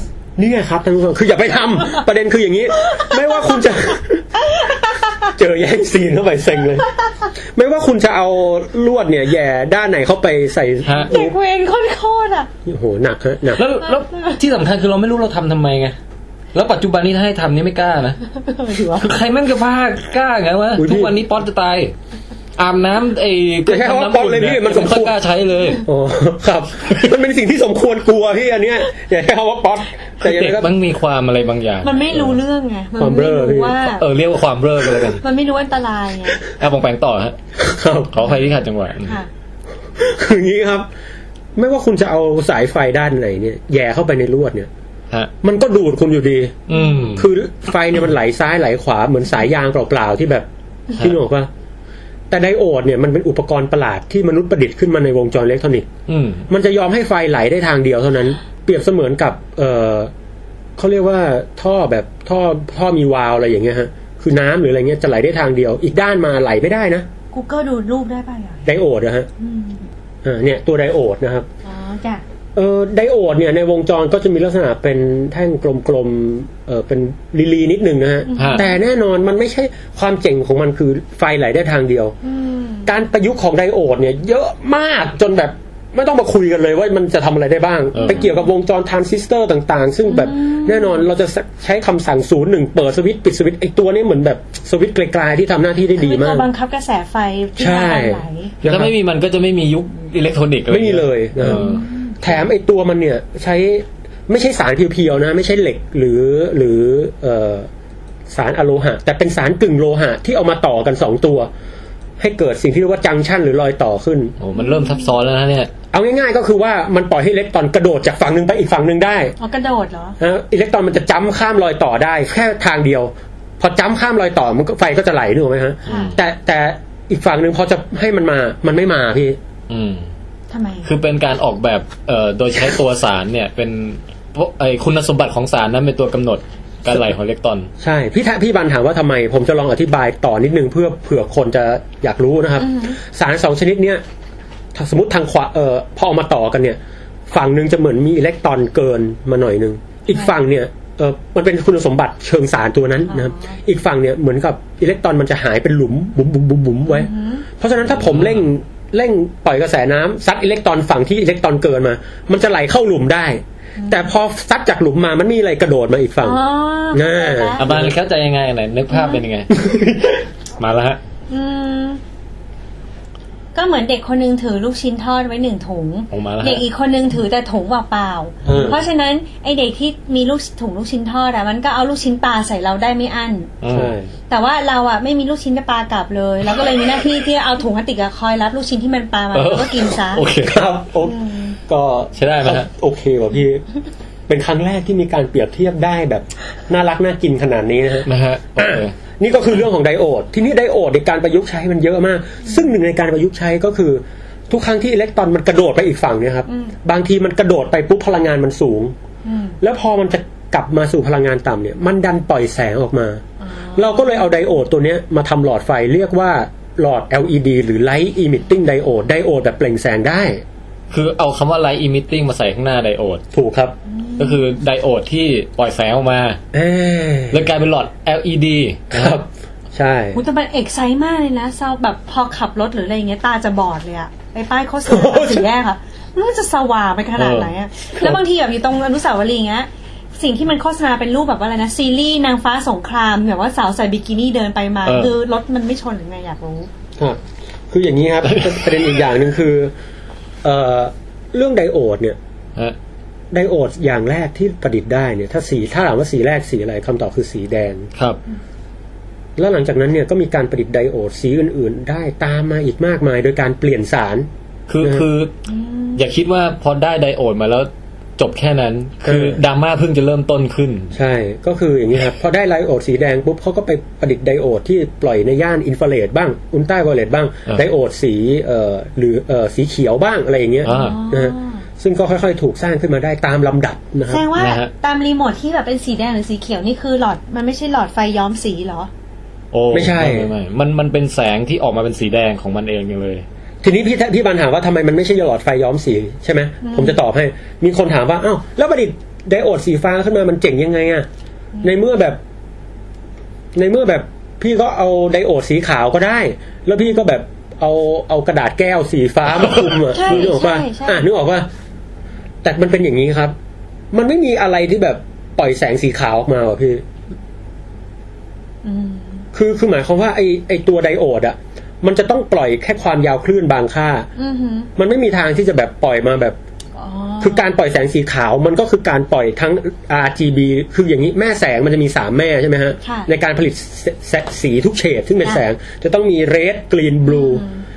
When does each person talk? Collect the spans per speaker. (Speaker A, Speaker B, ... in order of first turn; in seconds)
Speaker A: 0.4-4.7, 5.2-11.3, 12.6-13.6, 20.8-21.1, 23.6-25.1, 25.8-30.7, 33.0-33.8, 37.6-38.3, 40.0-40.9, 41.5-44.7, 45.4-51.5, 52.3-55.9, 56.5-60.1, 60.8-67.1, 68.6-69.3, 70.2-71.5, 72.5-82.2, 82.8-96.5, 97.6-98.9, 100.7-101.7, 102.2-107.7, 108.3-111.5, 112.2-114.3, 115.9-119.3, 120.2-129.4, 137.8-144.0, 144.7-166.4, 166.9-167.9, 169.5-170.2, 178.4-178.8, 183.7-184.1, 190.4-193.6, 194.3-208.9, 209.6-213.2, 213.7-220.4, 223.3-223.7, 226.5-227.5, 228.9-230.2, 234.9-235.5, 247.0-249.7, 250.4-252.2, 253.3-257.9, 259.4-264.3, 269.0-269.4, 270.9-284.3, 289.7-290.3, 293.6-301.1, 301.6-302.2, 303.5-311.5, 312.4-313.3, 313.9-316.8, 319.3-324.1, 324.8-326.4, 327.2-337.4
Speaker B: 2.8-3.7, 4.4-5.3, 11.1-12.5, 13.6-14.4, 18.3-19.1, 31.8-34.0, 35.2-36.4, 46.7-47.1, 67.3-68.7, 69.4-69.8, 71.6-72.2, 78.3-78.8, 82.2-82.9, 88.1-88.3, 90.1-91.0, 96.0-98.5, 101.4-102.2, 114.5-115.1, 119.4-120.2, 125.9-126.1, 130.5-130.9, 142.6-143.0, 153.1-153.6, 156.9-157.4, 163.8-164.1, 166.2-167.7, 168.9-169.2, 171.3-172.0, 173.5-183.5, 184.3-190.2, 191.0-191.6, 206.5-206.7, 209.2-209.6, 213.4-214.3, 223.9-224.4, 230.1-246.7, 265.5-266.0, 280.6-281.6, 284.1-288.9, 296.6-297.0, 309.8-311.0, 318.6-319.2, 324.1-324.7, 326.8-327.5, 332.8-333.1, 337.1-337.6
Speaker C: 10.8-11.1, 13.6-15.9, 16.5-18.2, 19.0-21.9, 22.6-25.8, 30.2-32.4, 33.9-35.2, 36.5-37.3, 38.1-39.2, 46.7-47.3, 56.1-56.5, 78.4-78.6, 87.9-88.3, 98.6-101.8, 114.4-115.7, 125.9-126.2, 129.7-130.1, 130.8-137.7, 157.9-158.4, 167.6-169.5, 170.6-171.0, 176.1-176.6, 183.6-183.9, 189.3-190.7, 192.2-192.7, 198.1-198.9, 220.9-223.2, 224.2-226.4, 227.3-229.2, 237.2-237.5, 244.8-245.1, 248.3-248.7, 264.7-265.3, 265.9-270.9, 280.6-281.0, 284.4-284.7, 289.5-293.2